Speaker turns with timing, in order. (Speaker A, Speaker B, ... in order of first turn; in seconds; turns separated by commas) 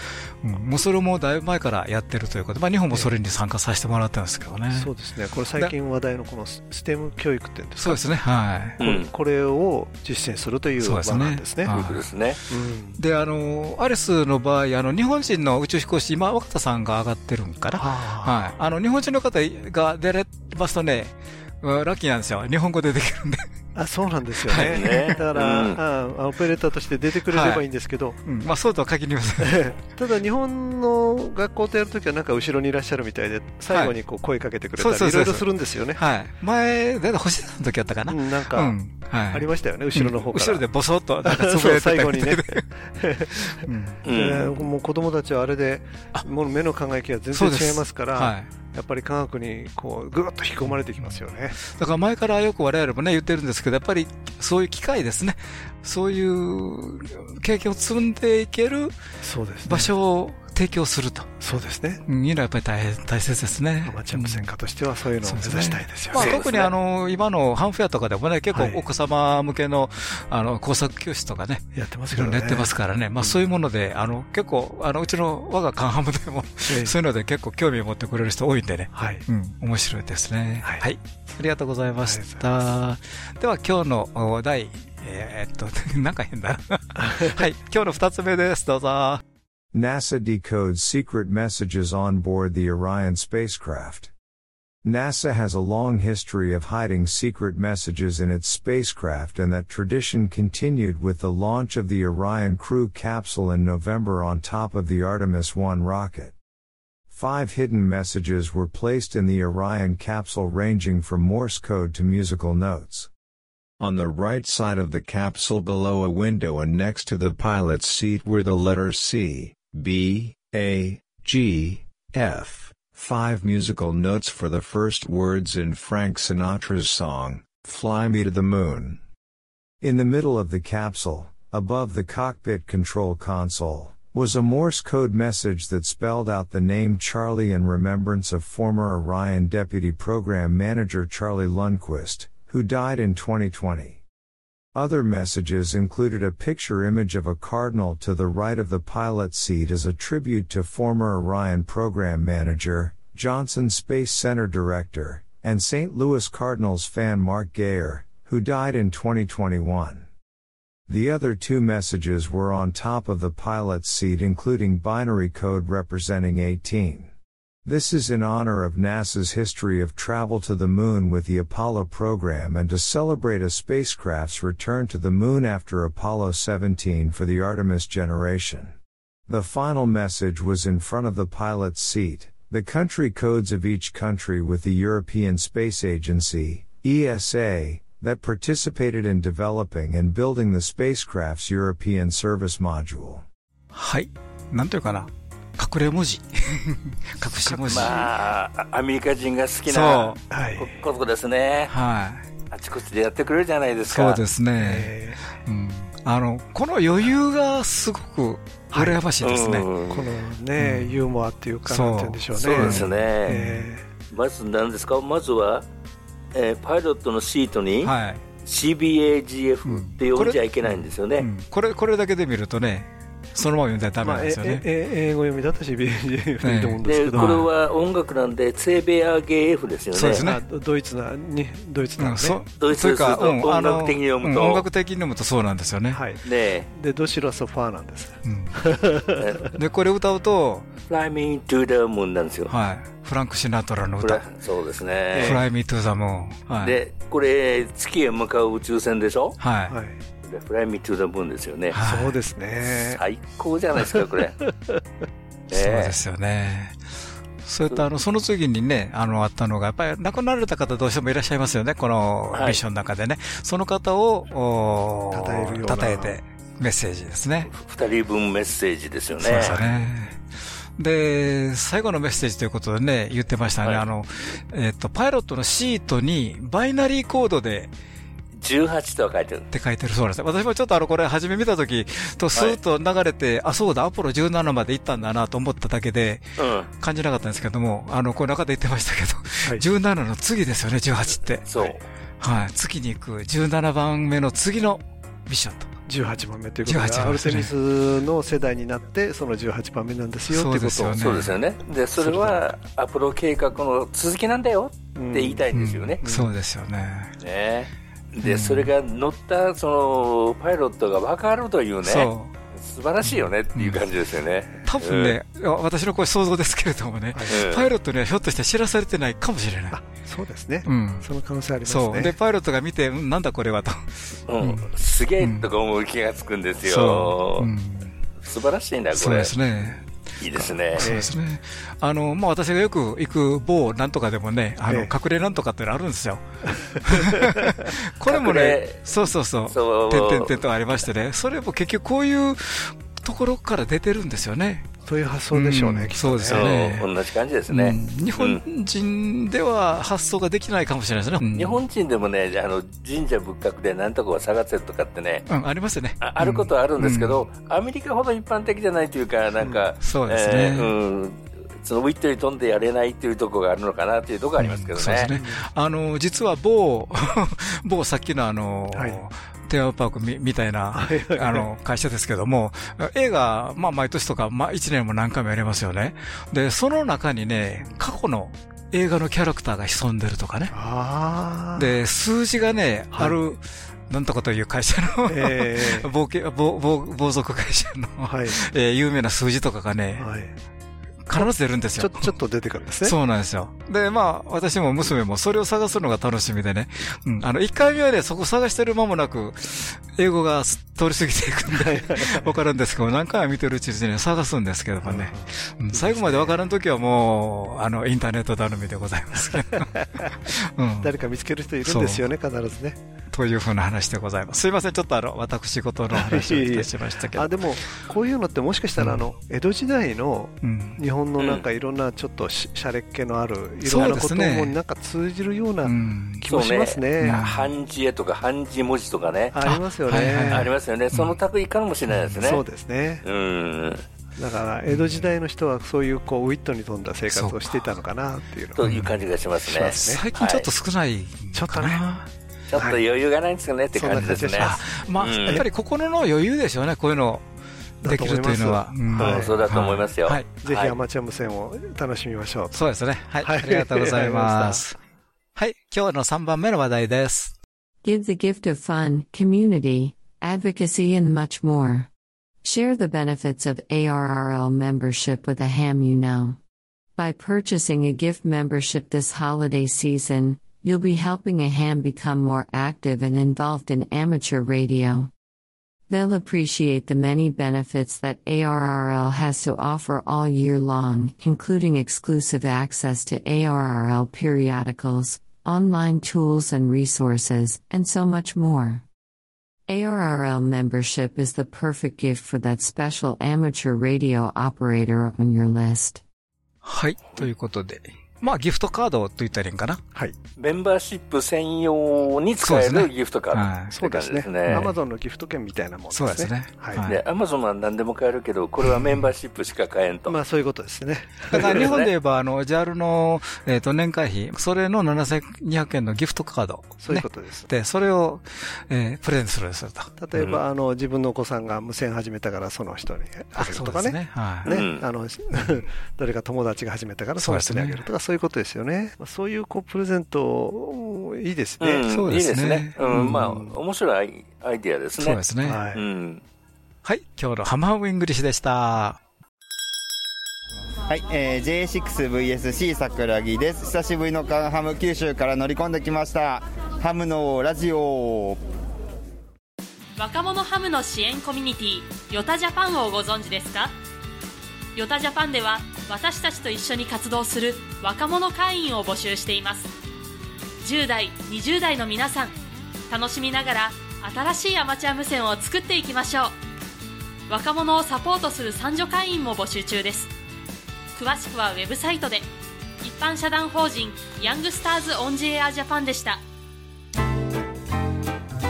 Speaker A: 0.4-4.9, Speaker B: 4.7-8.0, Speaker A: 7.8-8.8, Speaker B: 8.8-11.8, Speaker C: 8.8-9.1, Speaker A: 10.8-12.0, Speaker C: 11.7-12.4, Speaker B: 12.5-13.0, Speaker A: 13.0-23.4, Speaker B: 17.8-18.5, Speaker B: 23.7-28.2, Speaker A: 24.5-25.2, Speaker C: 24.5-25.8, Speaker A: 27.3-27.6, Speaker A: 28.2-29.7, Speaker B: 29.4-36.0, Speaker A: 33.7-33.9, Speaker A: 34.8-42.6, Speaker B: 38.1-38.7, Speaker B: 39.3-40.6, Speaker B: 41.2-51.6, Speaker A: 43.5-44.0, Speaker C: 44.0-44.6, Speaker A: 47.3-48.5, Speaker A: 51.0-58.9, Speaker B: 59.2-59.9, Speaker A: 59.6-61.4, Speaker B: 61.4-62.0, Speaker A: 62.1-64.4, Speaker B: 63.8-66.5, Speaker A: 65.2-89.2, Speaker C: 66.1-66.7, Speaker B: 68.5-68.8, Speaker B: 71.7-73.4, Speaker B: 76.7-76.9, Speaker B: 78.9-79.2, Speaker B: 82.0-82.4, Speaker B: 87.0-87.3, Speaker D: 89.7-94.1, Speaker D: 94.8-106.3, Speaker D: 107.1-113.1, Speaker D: 113.8-129.0, Speaker D: 129.8-144.0, Speaker D: 144.7-160.1, Speaker D: 160.9-167.1, Speaker D: 167.6-178.7, Speaker D: 179.3-193.2, Speaker A: 193.7-198.0, Speaker B: 197.4-198.0, Speaker C: 197.7-201.7, Speaker A: 199.7-200.2, Speaker B: 200.3-200.8, Speaker A: 201.7-202.2, Speaker C: 202.5-204.2, Speaker A: 203.9-209.7, Speaker B: 204.6-205.2, Speaker B: 208.7-209.0, Speaker C: 209.2-210.1, Speaker B: 209.9-213.8, Speaker A: 210.6-211.0, Speaker A: 211.7-213.7, Speaker C: 212.3-213.3, Speaker C: 214.1-215.6, Speaker C: 216.3-217.9, Speaker A: 217.8-218.2, Speaker C: 218.4-221.3, Speaker A: 219.6-224.6, Speaker B: 224.0-227.4, Speaker A: 226.4-227.4, Speaker C: 226.8-230.2, Speaker A: 229.9-230.4, Speaker B: 230.2-232.4, Speaker A: 232.0-236.0, Speaker C: 232.6-234.6, Speaker B: 235.9-239.3, Speaker C: 236.2-236.7, Speaker A: 238.2-238.7, Speaker A: 239.5-240.7, Speaker C: 240.9-242.5, Speaker A: 242.5-244.2, Speaker C: 244.0-245.4, Speaker B: 245.1-245.4, Speaker A: 245.2-246.8, Speaker C: 246.6-249.4, Speaker A: 249.4-249.7, Speaker B: 249.7-250.0, Speaker C: 250.2-251.8, Speaker A: 251.7-252.2, Speaker B: 251.7-253.0, Speaker C: 252.7-254.4, Speaker B: 254.4-254.8, Speaker C: 255.5-255.9, Speaker A: 255.5-256.8, Speaker A: 257.4-267.5, Speaker C: 262.3-262.6, Speaker B: 265.1-266.1, Speaker C: 267.6-269.6, Speaker A: 269.2-270.2, Speaker B: 269.3-269.6, Speaker A: 270.8-277.7, Speaker C: 278.4-279.5, Speaker A: 279.5-291.5, Speaker C: 286.4-286.7, Speaker C: 291.5-291.8, Speaker A: 292.2-295.7, Speaker B: 295.9-301.0, Speaker A: 296.6-297.5, Speaker A: 300.3-301.4, Speaker C: 301.0-306.0, Speaker B: 302.0-302.3, Speaker B: 304.9-305.4, Speaker A: 305.5-307.1, Speaker B: 306.0-306.3, Speaker C: 307.2-315.1, Speaker A: 308.2-308.7, Speaker A: 311.8-312.3, Speaker A: 313.0-313.8, Speaker A: 314.6-319.8, Speaker C: 317.3-317.7, Speaker B: 319.7-322.1, Speaker A: 320.6-321.1, Speaker A: 321.6-324.7, Speaker C: 324.3-327.5, Speaker A: 325.2-325.5, Speaker A: 326.6-328.0, Speaker C: 328.2-329.3, Speaker A: 328.9-329.8, Speaker C: 330.2-330.9, Speaker A: 330.8-336.2, Speaker B: 330.8-331.1, Speaker B: 336.5-337.5, Speaker A: 336.8-344.7, Speaker C: 338.1-338.8, Speaker C: 339.5-340.4, Speaker B: 344.9-346.5, Speaker A: 345.3-346.9, Speaker C: 346.3-348.4, Speaker A: 347.5-351.6, Speaker C: 351.3-355.2, Speaker A: 355.3-357.2, Speaker C: 356.0-365.1, Speaker A: 359.8-360.7, Speaker A: 364.4-380.5, Speaker B: 365.1-365.4, Speaker B: 368.7-369.0, Speaker B: 370.7-371.4, Speaker B: 380.5-381.7, Speaker A: 381.6-390.1, Speaker B: 385.1-385.9, Speaker B: 388.0-388.4, Speaker B: 390.0-390.3, Speaker A: 391.1-392.1, Speaker B: 391.1-392.9, Speaker A: 392.8-409.7, Speaker B: 401.5-402.3, Speaker B: 404.8-406.4, Speaker B: 409.3-410.1, Speaker A: 410.3-410.9, Speaker B: 410.8-412.8, Speaker A: 411.6-412.0, Speaker A: 413.1-417.4, Speaker B: 415.9-427.3, Speaker A: 420.4-420.8, Speaker C: 421.2-421.4, Speaker A: 423.6-424.6, Speaker A: 425.6-426.2, Speaker C: 426.3-429.3, Speaker A: 427.0-427.5, Speaker B: 429.3-430.5, Speaker A: 429.4-431.2, Speaker C: 430.3-432.4, Speaker B: 432.1-433.0, Speaker C: 433.0-433.8, Speaker B: 434.2-438.6, Speaker A: 434.7-435.1, Speaker A: 437.1-437.6, Speaker C: 438.6-440.5, Speaker A: 438.6-438.9, Speaker B: 439.4-440.0, Speaker A: 439.7-442.1, Speaker B: 441.3-441.8, Speaker C: 442.5-445.4, Speaker B: 443.7-444.6, Speaker A: 444.4-447.2, Speaker B: 447.8-449.6, Speaker A: 447.8-450.3, Speaker C: 449.0-450.8, Speaker B: 450.4-452.6, Speaker A: 452.5-454.7, Speaker B: 453.2-454.7, Speaker A: 455.4-457.3, Speaker E: 457.8-461.9, Speaker E: 462.4-466.4, Speaker E: 467.0-475.1, Speaker E: 475.9-488.8, Speaker E: 489.7-496.0, Speaker A: 496.6-499.8, Speaker C: 500.4-504.7, Speaker A: 502.4-503.7, Speaker B: 503.7-506.8, Speaker A: 504.5-504.7, Speaker A: 505.9-507.0, Speaker C: 506.9-510.2, Speaker B: 510.1-511.7, Speaker A: 511.3-519.9, Speaker C: 511.3-511.9, Speaker B: 516.8-517.5, Speaker B: 520.0-531.8, Speaker A: 523.4-524.5, Speaker C: 524.5-524.8, Speaker A: 527.2-527.9, Speaker C: 531.6-536.2, Speaker A: 531.9-533.2, Speaker B: 532.9-533.5, Speaker A: 535.0-535.6, Speaker B: 535.4-535.8, Speaker A: 536.8-539.0, Speaker F: 540.9-548.4, Speaker G: 550.0-553.7, Speaker G: 554.7-559.7, Speaker G: 560.6-562.3, Speaker G: 562.9-566.3, Speaker G: 567.3-570.1, Speaker G: 570.9-572.3, Speaker G: 572.8-576.2